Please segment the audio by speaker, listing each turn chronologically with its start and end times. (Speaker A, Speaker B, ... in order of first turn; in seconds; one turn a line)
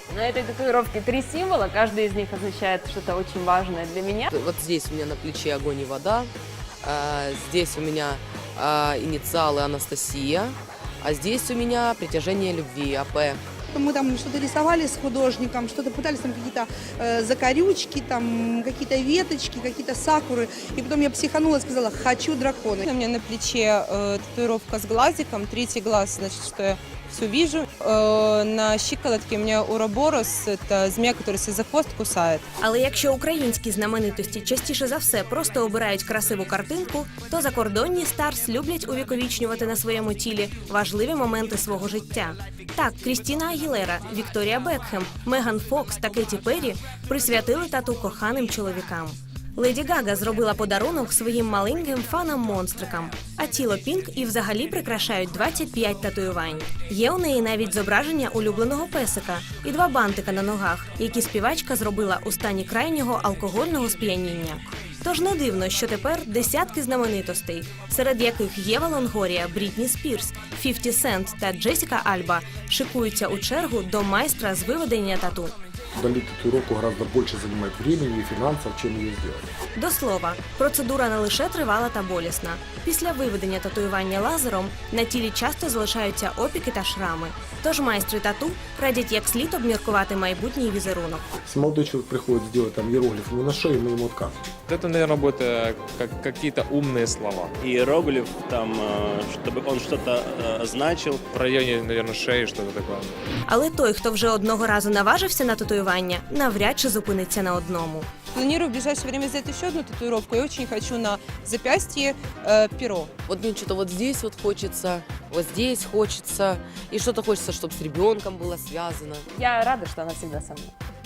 Speaker A: 0.1-4.3
Speaker B: 4.3-6.3
Speaker B: 6.8-13.4
Speaker C: 13.7-22.9
Speaker D: 22.8-32.4
Speaker E: 32.6-75.5
Speaker F: 76.0-79.5
Speaker E: 79.8-91.3
Speaker F: 91.5-94.5
Speaker G: 94.7-97.5
Speaker H: 97.6-101.2
Speaker G: 101.3-103.1
Speaker E: 103.5-108.1
Speaker D: 108.3-113.1
Speaker B: 113.3-119.3
Speaker A: 119.3-120.8